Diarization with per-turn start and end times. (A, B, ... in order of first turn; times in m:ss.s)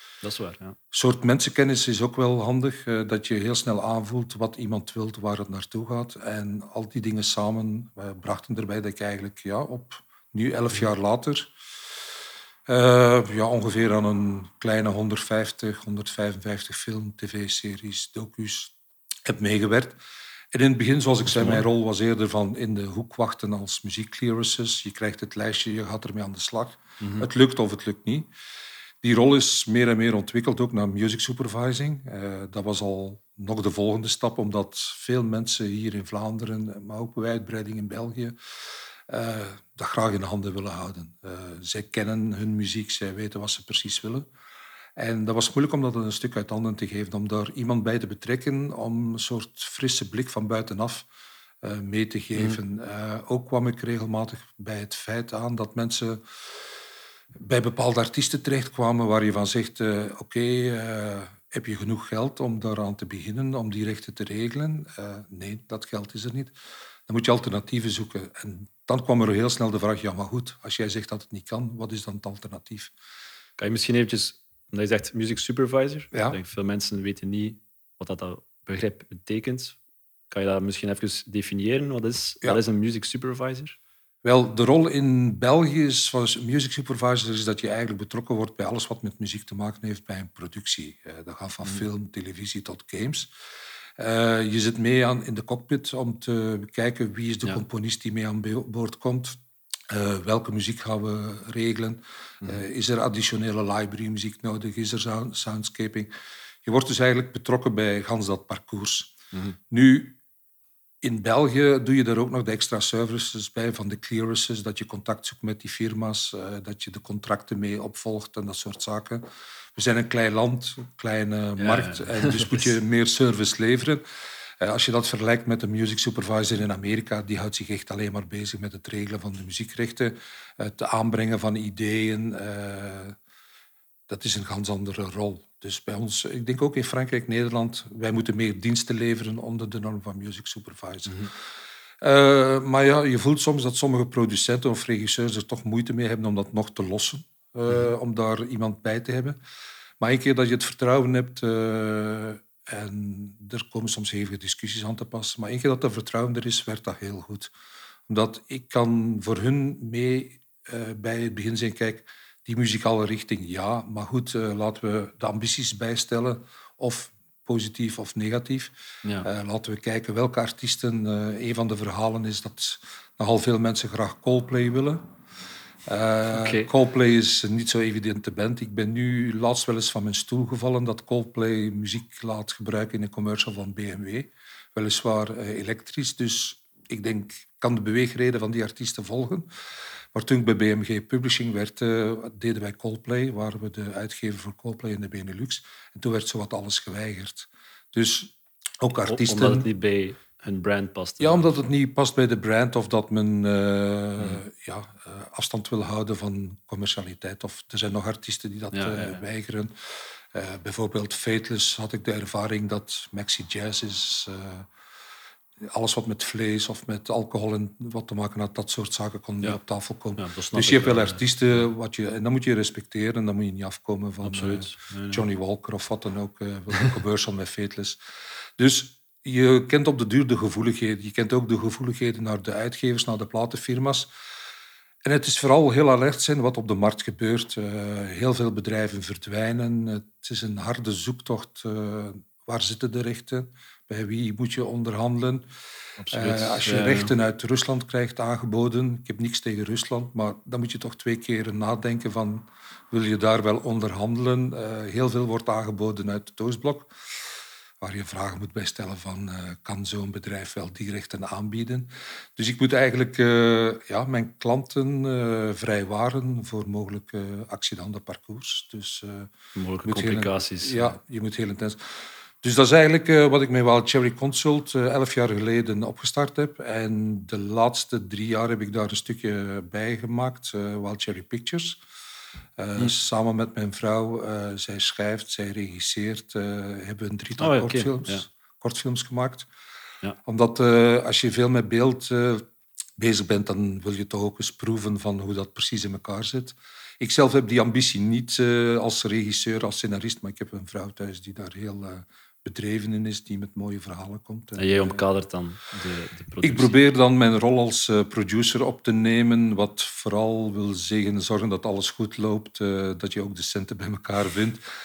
0:00.2-0:00.8 A
0:00.9-0:11.5 B
0:12.7-0:18.7 B
0:19.2-0:20.0 B
0:20.5-0:28.3 B
0:21.3-0:21.6 A
0:27.0-0:27.2 A
0:29.0-0:38.4 B
0:39.1-0:44.3 B
0:45.0-0:51.1 B
0:51.6-0:56.2 B
0:57.3-1:06.5 B
1:07.1-1:12.9 B
1:13.6-1:19.8 A
1:16.1-1:16.4 B
1:20.3-1:23.8 A
1:24.2-1:33.3 B
1:34.0-1:46.1 B
1:46.6-1:49.1 B
1:49.7-1:50.2 B
1:51.0-2:04.0 B
2:01.6-2:02.7 A
2:04.6-2:13.2 B
2:14.1-2:21.4 B
2:22.0-2:29.4 B
2:30.0-2:37.5 B
2:38.1-2:55.0 B
2:55.8-3:09.5 B
2:56.3-2:56.7 A
3:10.1-3:19.7 B
3:19.0-3:21.6 A
3:21.2-3:34.7 B
3:28.7-3:29.2 A
3:35.6-3:48.0 B
3:40.2-3:41.2 A
3:44.2-3:45.2 A
3:48.6-3:54.1 B
3:55.0-4:05.5 B
4:06.0-4:07.1 A
4:06.1-4:16.9 B
4:17.8-4:29.3 B
4:29.6-4:31.0 A
4:29.8-4:41.8 B
4:42.6-4:49.5 B
4:47.4-4:48.2 A
4:50.2-4:52.4 B
4:53.0-5:05.0 B
5:04.6-5:06.8 A
5:06.4-5:14.6 B